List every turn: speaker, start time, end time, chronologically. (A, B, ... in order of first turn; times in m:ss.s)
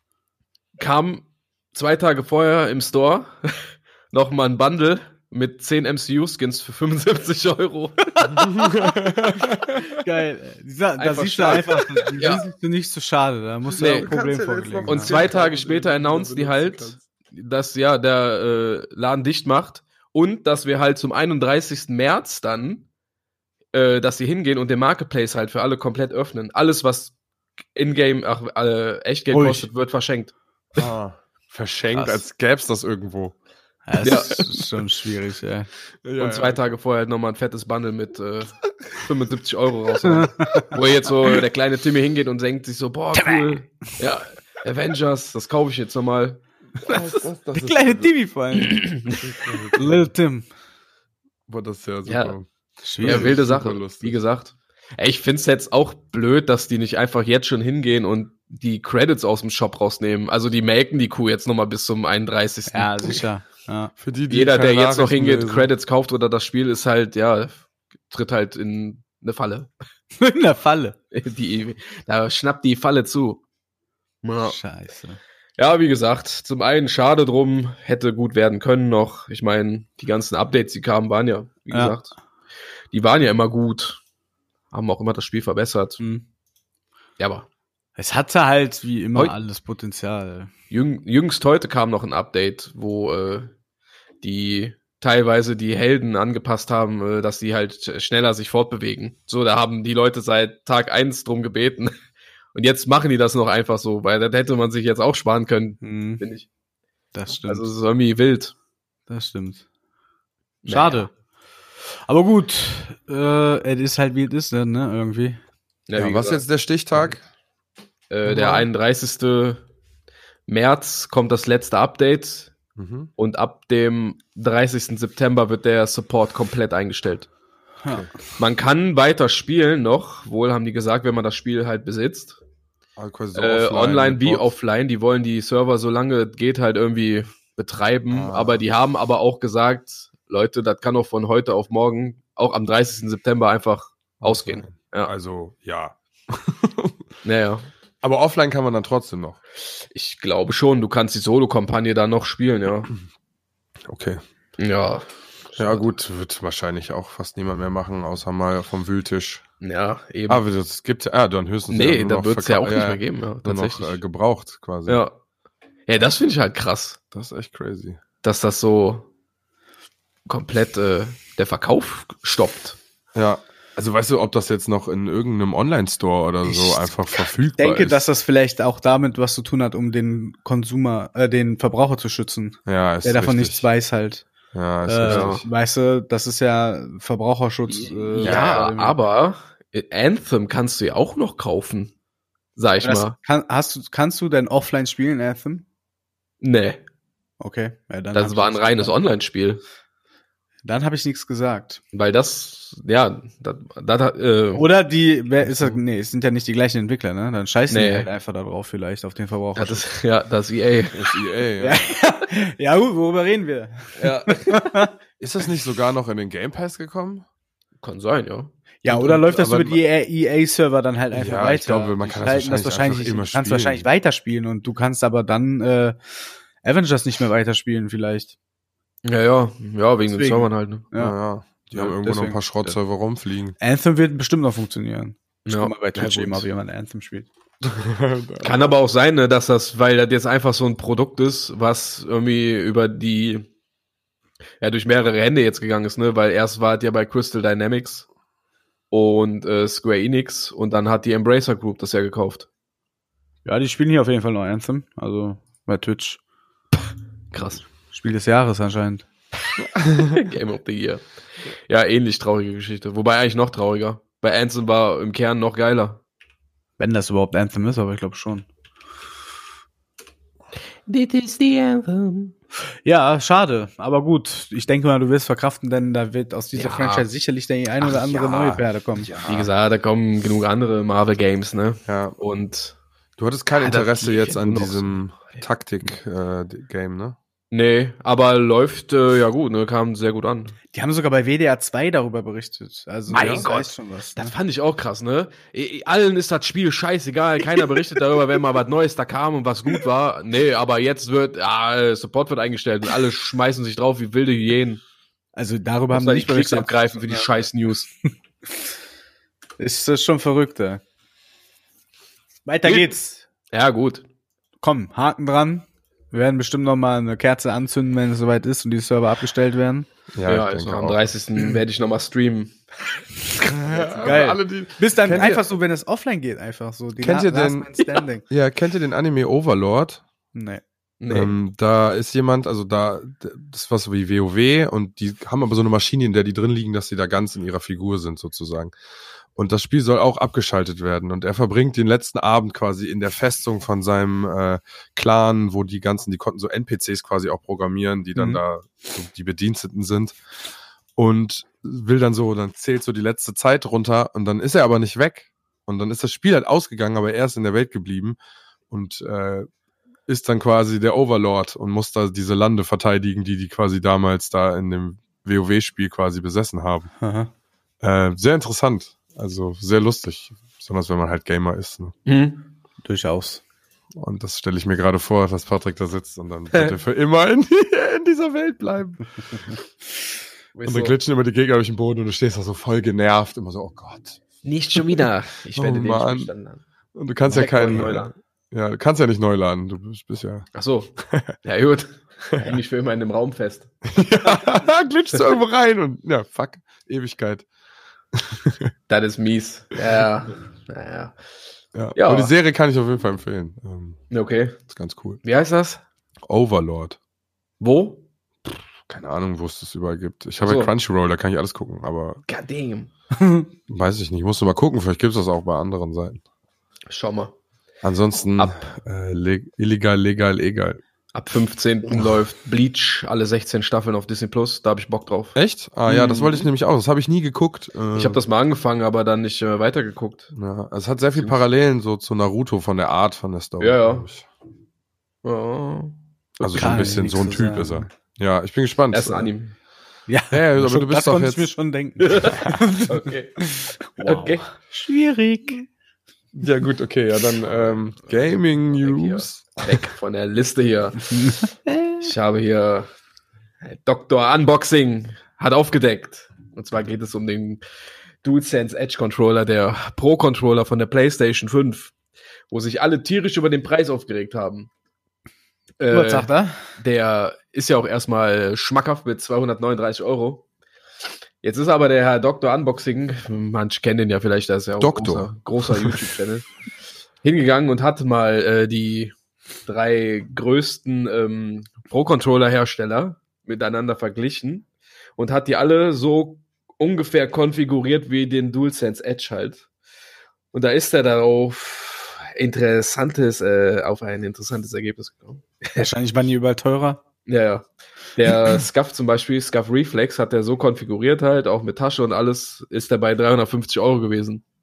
0:00.8-0:08.7 A
0:08.4-0:09.9 B
0:10.0-0:15.1 C
0:11.0-0:12.4 A
0:13.8-0:14.1 A
0:13.8-0:17.0 B
0:14.9-0:22.9 A
0:23.7-0:27.2 A
0:27.8-0:30.3 A
0:29.3-0:29.7 C
0:30.8-0:33.4 B
0:31.9-0:32.2 C
0:33.9-0:35.7 C
0:34.0-0:34.4 A
0:36.0-0:36.6 B
0:36.2-0:47.2 A
0:40.1-0:40.8 C
0:43.1-0:43.6 C
0:46.8-0:48.1 B
0:47.6-0:48.9 C
0:48.6-0:49.3 A
0:49.2-0:50.1 B
0:49.7-0:50.5 C
0:51.5-0:52.5 B
0:52.1-0:52.4 A
0:52.8-0:53.4 C
0:53.0-0:54.2 B
0:53.0-1:03.2 A
1:02.7-1:03.9 C
1:04.0-1:05.7 B
1:04.3-1:09.7 A
1:10.2-1:11.0 C
1:11.1-1:13.4 A
1:14.2-1:14.6 A
1:14.5-1:15.2 C
1:15.6-1:22.2 A
1:22.9-1:24.0 A
1:24.7-1:26.0 A
1:27.2-1:27.5 A
1:28.0-1:30.5 C
1:30.7-1:33.5 A
1:34.2-1:41.9 A
1:42.5-1:46.5 A
1:45.8-1:46.2 C
1:47.1-1:47.7 C
1:47.4-1:48.5 A
1:49.1-1:49.6 C
1:50.6-1:51.1 A
1:50.7-1:51.1 C
1:52.1-1:55.4 C
1:55.9-1:56.4 A
1:56.0-1:57.2 B
1:58.1-1:59.6 A
1:58.3-1:58.7 B
2:00.5-2:02.6 A
2:02.8-2:03.1 B
2:03.2-2:07.3 A
2:07.9-2:08.1 B
2:08.4-2:12.4 A
2:13.0-2:14.5 B
2:13.4-2:25.1 A
2:18.1-2:18.6 B
2:24.2-2:27.0 B
2:27.2-2:27.7 A
2:28.0-2:29.4 B
2:29.9-2:32.9 A
2:33.9-2:34.2 B
2:34.6-2:35.8 A
2:35.6-2:39.4 B
2:39.6-2:40.4 A
2:40.3-2:45.0 B
2:41.7-2:44.0 A
2:44.9-2:45.1 A
2:45.9-2:47.0 A
2:47.1-2:48.0 B
2:48.2-2:49.1 A
2:50.3-2:52.8 A
2:53.2-2:58.0 B
2:56.4-3:04.2 C
3:02.7-3:03.7 B
3:04.5-3:05.4 B
3:04.8-3:09.0 C
3:05.0-3:05.4 A
3:07.8-3:11.9 A
3:08.2-3:08.7 B
3:12.6-3:13.2 A
3:12.8-3:15.6 C
3:16.4-3:16.8 A
3:17.4-3:18.9 C
3:18.1-3:19.6 A
3:20.6-3:21.8 C
3:21.9-3:24.6 A
3:24.6-3:29.8 C
3:25.4-3:25.8 A
3:27.7-3:28.1 A
3:29.6-3:31.8 A
3:30.9-3:31.8 B
3:31.6-3:34.9 C
3:34.0-3:34.8 A
3:35.2-3:37.3 B
3:37.8-3:39.2 A
3:38.8-3:48.3 C
3:39.0-3:39.8 B
3:41.1-3:43.9 B
3:49.0-3:50.8 A
3:50.1-3:51.2 C
3:51.0-3:53.6 B
3:51.7-3:52.4 C
3:53.6-3:57.3 C
3:55.5-3:56.4 A
3:57.6-3:58.7 B
3:58.4-4:03.5 A
4:04.6-4:08.1 A
4:08.9-4:12.5 A
4:13.4-4:16.2 C
4:17.3-4:17.7 A
4:17.9-4:19.1 C
4:19.8-4:20.1 B
4:20.0-4:26.0 A
4:26.8-4:28.5 C
4:30.9-4:32.3 A
4:32.8-4:39.1 C
4:36.6-4:37.1 A
4:37.8-4:38.6 A
4:39.0-4:39.5 B
4:39.2-4:42.8 A
4:41.9-4:42.2 B
4:43.2-4:47.2 B
4:43.6-4:45.4 A
4:47.5-4:50.6 A
4:50.7-4:54.3 C
4:53.1-5:04.8 A
4:53.2-4:53.4 B
5:05.4-5:07.3 C
5:05.9-5:07.9 A
5:09.6-5:10.8 C
5:12.4-5:13.2 C
5:12.6-5:12.9 A
5:13.5-5:14.0 A
5:14.6-5:19.9 C
5:20.1-5:21.0 B
5:20.3-5:24.2 A
5:23.5-5:25.4 B
5:24.0-5:28.2 C
5:27.0-5:27.7 B
5:28.3-5:30.0 B
5:30.3-5:30.6 C
5:31.0-5:31.3 A
5:31.1-5:38.7 B
5:39.3-5:50.2 B
5:48.2-5:48.4 C
5:51.0-5:58.2 B
5:58.7-5:59.5 B
6:00.1-6:06.9 B
6:07.0-6:07.3 C
6:07.8-6:11.9 B
6:12.1-6:12.4 A
6:12.8-6:13.4 C
6:14.0-6:19.5 B
6:20.6-6:20.9 A
6:20.7-6:24.2 B
6:24.4-6:26.6 A
6:24.8-6:26.3 B
6:27.0-6:30.5 B
6:27.3-6:28.1 A
6:27.3-6:27.8 C
6:30.6-6:30.9 A
6:31.0-6:31.4 B
6:31.4-6:33.7 A
6:33.9-6:37.5 B
6:38.1-6:38.7 B
6:38.9-6:41.2 A
6:41.8-6:44.0 B
6:42.0-6:42.3 A
6:44.1-6:44.6 A
6:44.7-6:45.2 B
6:45.2-6:45.8 A
6:46.2-6:47.0 B
6:47.6-6:48.0 A
6:48.9-6:52.2 B
6:50.4-6:50.7 A
6:52.3-6:52.9 A
6:53.2-6:53.5 C
6:53.7-6:56.2 B
6:56.9-6:57.3 A
6:57.8-7:00.8 B
7:01.1-7:06.5 A
7:05.4-7:08.2 B
7:08.0-7:10.3 A
7:10.4-7:14.3 B
7:13.6-7:14.1 A
7:15.2-7:17.0 A
7:16.4-7:19.3 B
7:16.6-7:17.9 C
7:18.9-7:19.5 A
7:20.1-7:25.7 C
7:20.3-7:21.5 B
7:22.0-7:23.4 A
7:24.0-7:24.5 A
7:26.4-7:29.8 B
7:27.7-7:31.5 A
7:31.1-7:32.1 C
7:32.0-7:32.9 A
7:33.6-7:37.6 A
7:38.2-7:41.9 A
7:42.5-7:44.7 A
7:45.8-7:50.4 A
7:45.9-7:46.6 C
7:51.4-7:56.5 A
7:54.8-7:56.1 B
7:57.2-7:59.2 A
7:59.7-8:09.7 A
8:10.5-8:15.9 A
8:15.8-8:17.0 C
8:17.3-8:24.4 A